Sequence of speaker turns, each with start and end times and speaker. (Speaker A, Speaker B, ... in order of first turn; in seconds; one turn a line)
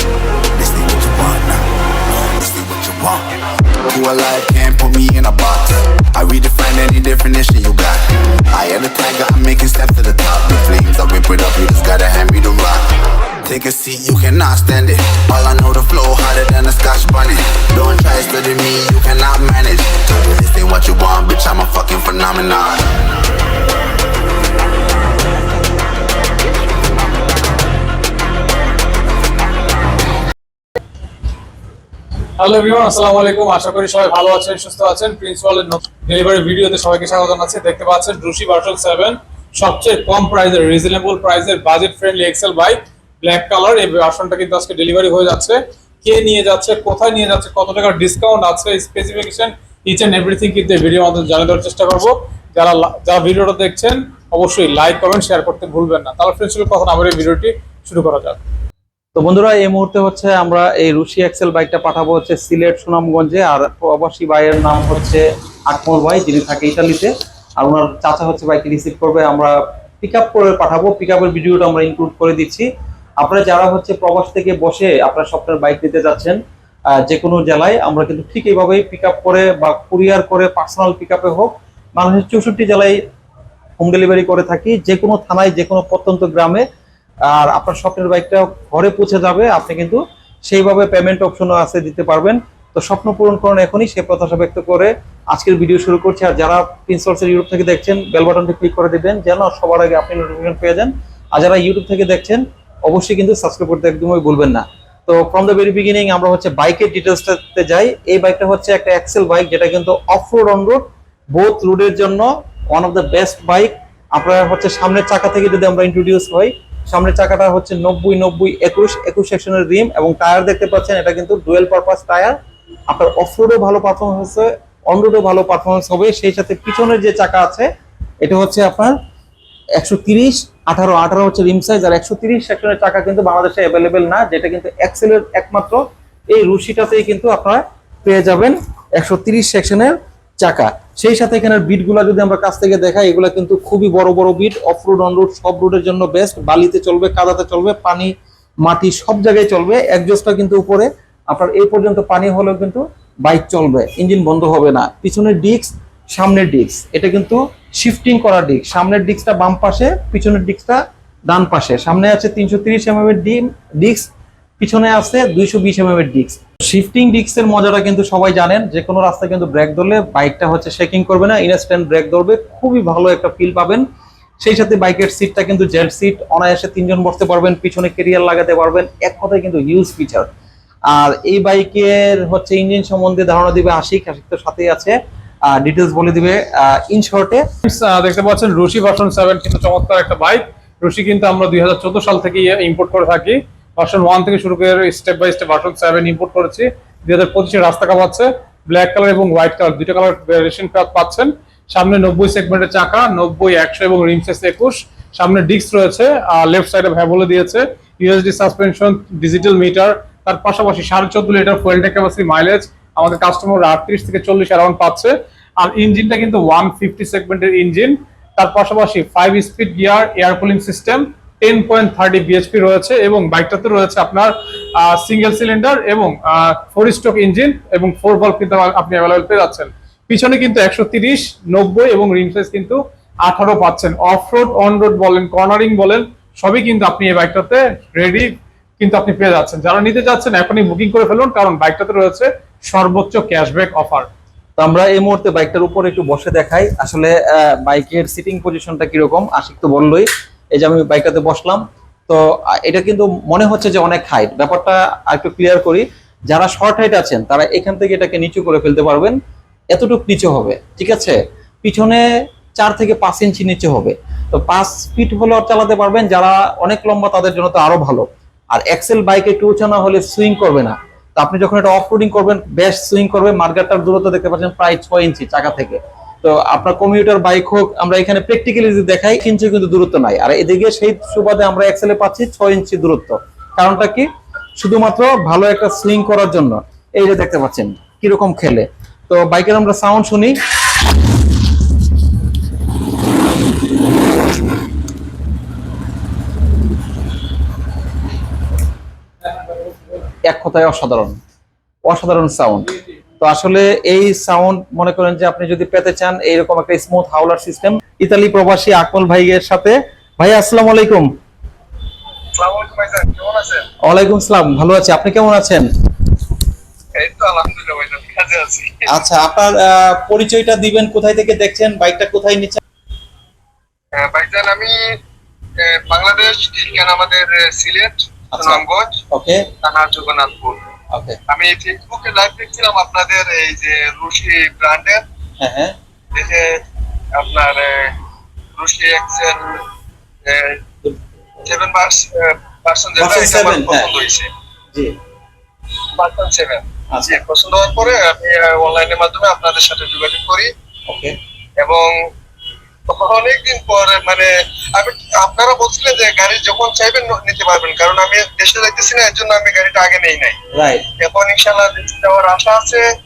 Speaker A: 0.5-1.6
Speaker A: 2.3-3.3
Speaker A: 3.9-22.9
Speaker B: 32.4-58.4
Speaker C: 59.1-72.7
Speaker C: 73.2-76.4
Speaker C: 76.9-83.0
Speaker C: 83.8-86.6
Speaker C: 87.3-122.4
Speaker C: 122.9-127.7
Speaker C: 128.2-128.9
Speaker C: 129.8-148.1
Speaker C: 148.7-164.1
Speaker C: 164.6-173.8
Speaker C: 174.4-180.3
Speaker C: 180.9-185.0
Speaker C: 185.5-187.4
Speaker B: 187.7-244.1
Speaker C: 244.6-259.2
Speaker C: 259.7-262.0
Speaker C: 262.6-290.3
Speaker C: 300.3-301.2
Speaker C: 301.9-311.1
Speaker D: 312.4-313.6
Speaker C: 313.9-315.7
Speaker D: 316.9-318.9
Speaker C: 318.9-322.6
Speaker D: 324.0-324.7
Speaker D: 325.7-329.0
Speaker C: 328.3-329.4
Speaker D: 329.6-330.6
Speaker C: 330.9-331.2
Speaker D: 331.3-335.0
Speaker C: 335.4-335.8
Speaker D: 336.1-336.4
Speaker D: 337.2-337.9
Speaker D: 338.6-339.4
Speaker D: 340.3-340.6
Speaker D: 341.4-344.3
Speaker C: 343.0-343.9
Speaker D: 346.0-350.5
Speaker C: 346.9-347.2
Speaker C: 350.9-351.1
Speaker D: 351.6-351.9
Speaker D: 352.9-360.4
Speaker C: 360.5-360.9
Speaker D: 361.0-362.8